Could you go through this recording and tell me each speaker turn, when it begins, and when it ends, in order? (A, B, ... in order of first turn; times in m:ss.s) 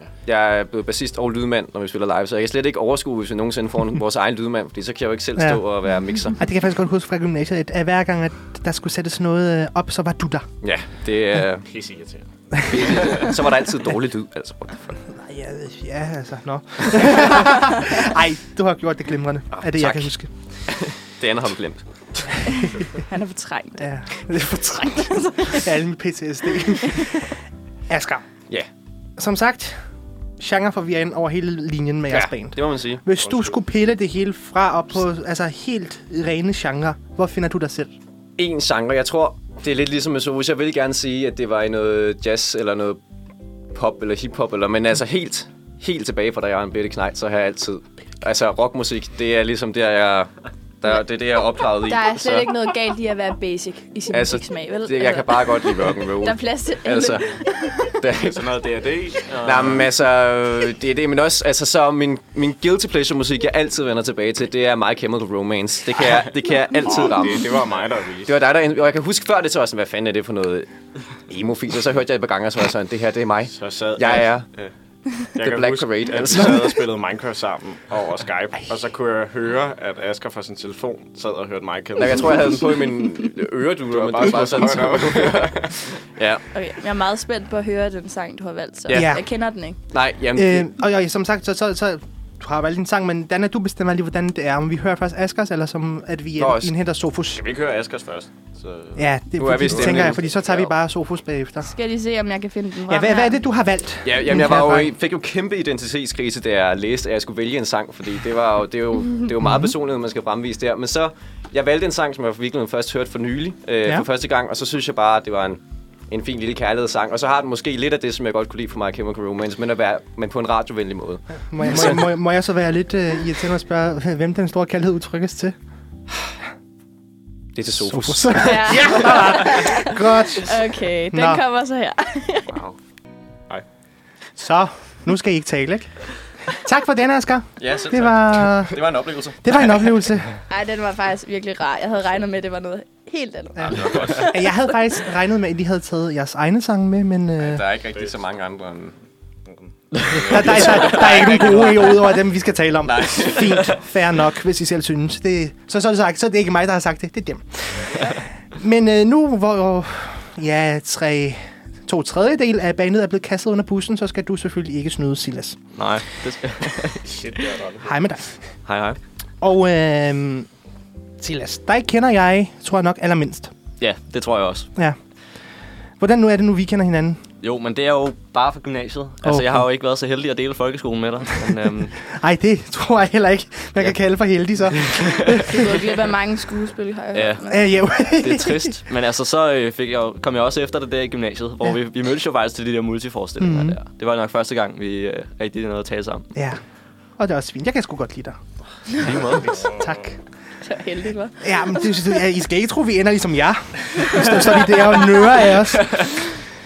0:00.2-0:06.4 A
0:05.4-0:05.6 B
0:06.4-0:10.5 B
0:10.6-0:11.7 A
0:11.7-0:12.2 C
0:12.6-0:15.0 A
0:15.1-0:20.3 B
0:19.5-0:20.1 A
0:20.7-0:22.4 A
0:22.6-0:23.9 D
0:23.8-0:28.2 B
0:25.0-0:25.6 D
0:29.2-0:29.8 B
0:30.4-0:37.9 B
0:32.1-0:33.1 A
0:38.4-0:43.0 A
0:43.7-0:50.3 A
0:50.8-0:52.5 A
0:51.8-0:58.0 D
0:54.1-0:57.3 A
0:58.0-0:58.5 A
0:58.2-0:59.8 C
0:59.4-1:07.5 A
1:06.9-1:08.4 C
1:08.3-1:10.7 A
1:11.3-1:14.5 A
1:13.5-1:14.7 C
1:15.3-1:22.6 C
1:15.4-1:16.7 A
1:22.0-1:26.4 A
1:23.9-1:25.9 C
1:26.5-1:29.8 D
1:28.9-1:29.1 A
1:28.9-1:29.2 B
1:29.9-1:30.7 A
1:30.4-1:37.4 B
1:36.4-1:36.7 A
1:37.3-1:39.0 C
1:39.0-1:41.7 B
1:39.4-1:40.6 A
1:39.6-1:40.4 C
1:41.6-1:43.4 D
1:42.9-1:44.9 B
1:44.0-2:02.1 A
1:49.4-1:49.8 B
2:01.5-2:05.6 B
2:07.6-2:09.1 A
2:07.9-2:11.4 B
2:08.4-2:12.6 D
2:12.5-2:12.8 A
2:14.4-2:15.9 B
2:16.5-2:18.8 B
2:17.6-2:19.7 A
2:19.4-2:20.4 B
2:20.5-2:24.6 D
2:23.6-2:27.6 B
2:23.8-2:24.2 A
2:27.4-2:28.9 A
2:29.9-2:30.2 E
2:30.1-2:31.9 C
2:30.2-2:45.7 B
2:30.3-2:31.2 A
2:32.8-2:33.7 A
2:45.8-2:47.5 E
2:47.1-2:47.9 C
2:47.8-2:48.4 B
2:48.7-2:49.0 A
2:49.4-2:50.5 B
2:51.2-2:53.5 B
2:53.8-2:54.7 E
2:56.0-2:57.2 B
2:57.4-3:02.0 E
2:59.2-2:59.6 B
3:02.1-3:05.6 B
3:04.8-3:05.2 E
3:05.3-3:07.7 D
3:07.1-3:07.4 E
3:07.5-3:08.8 B
3:08.2-3:16.3 E
3:13.4-3:13.8 B
3:16.4-3:16.6 B
3:17.2-3:18.4 B
3:18.9-3:20.2 B
3:19.0-3:19.6 E
3:20.6-3:22.2 D
3:21.4-3:26.3 B
3:25.8-3:26.1 E